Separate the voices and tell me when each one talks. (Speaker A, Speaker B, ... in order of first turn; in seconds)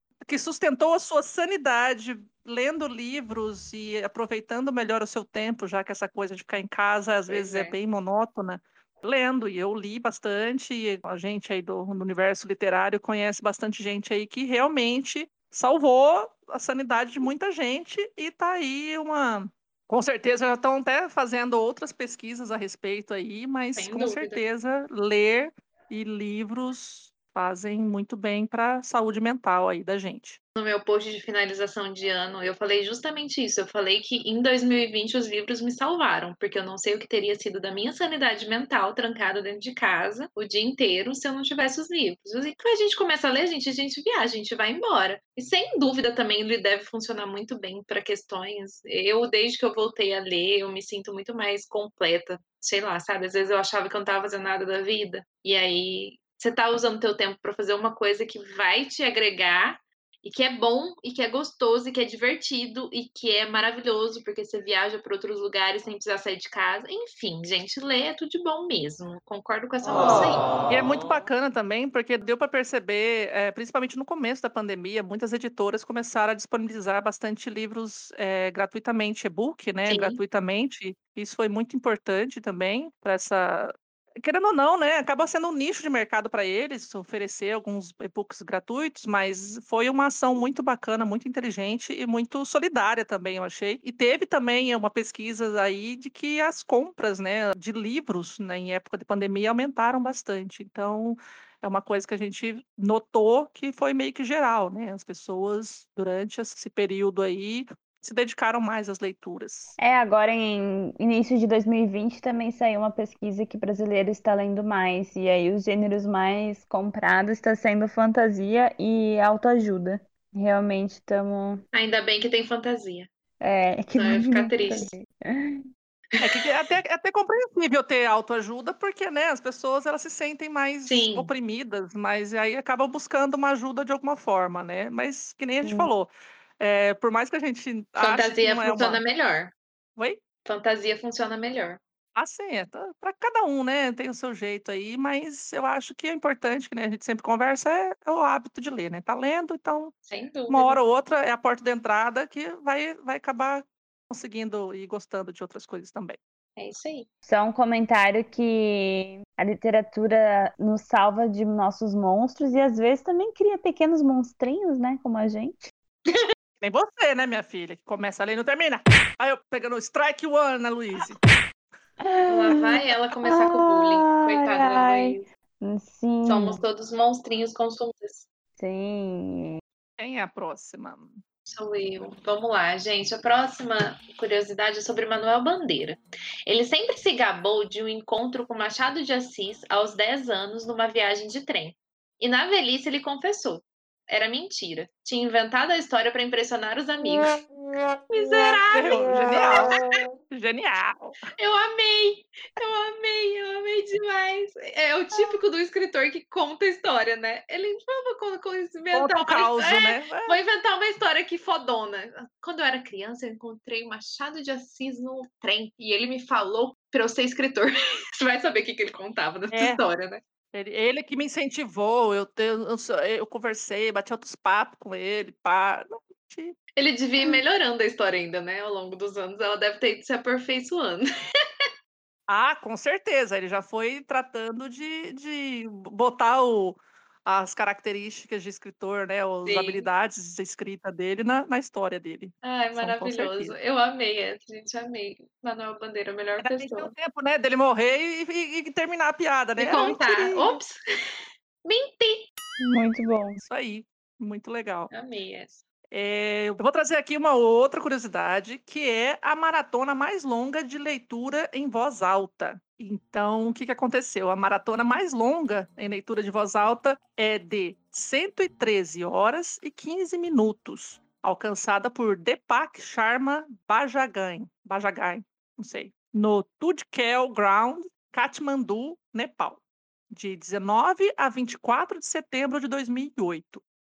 Speaker A: 0.2-30.4, 70.7-109.8, 126.2-139.0, 142.2-149.9, 150.5-156.2, 166.6-171.2, 180.0-181.2, 198.7-201.2, 208.9-210.4, 219.5-219.8, 220.5-226.6, 232.3-243.6, 246.4-250.6, 253.4-254.9, 255.9-279.6, 280.1-283.6
Speaker B: 7.3-7.8, 23.8-24.4, 30.6-70.5, 79.9-80.2, 121.7-123.1, 124.0-124.9, 130.8-131.3, 138.0-139.5, 140.4-141.8, 150.1-150.8, 156.6-157.1, 172.3-175.3, 176.2-178.2, 181.5-197.4, 198.1-199.7, 201.4-220.2, 226.8-231.1, 239.4-239.9, 242.4-246.9, 249.6-250.8, 251.6-252.3, 254.9-255.6
Speaker C: 109.8-121.6, 123.4-125.7, 135.6-135.9, 157.2-165.7, 172.0-176.6, 178.6-179.6, 252.6-253.4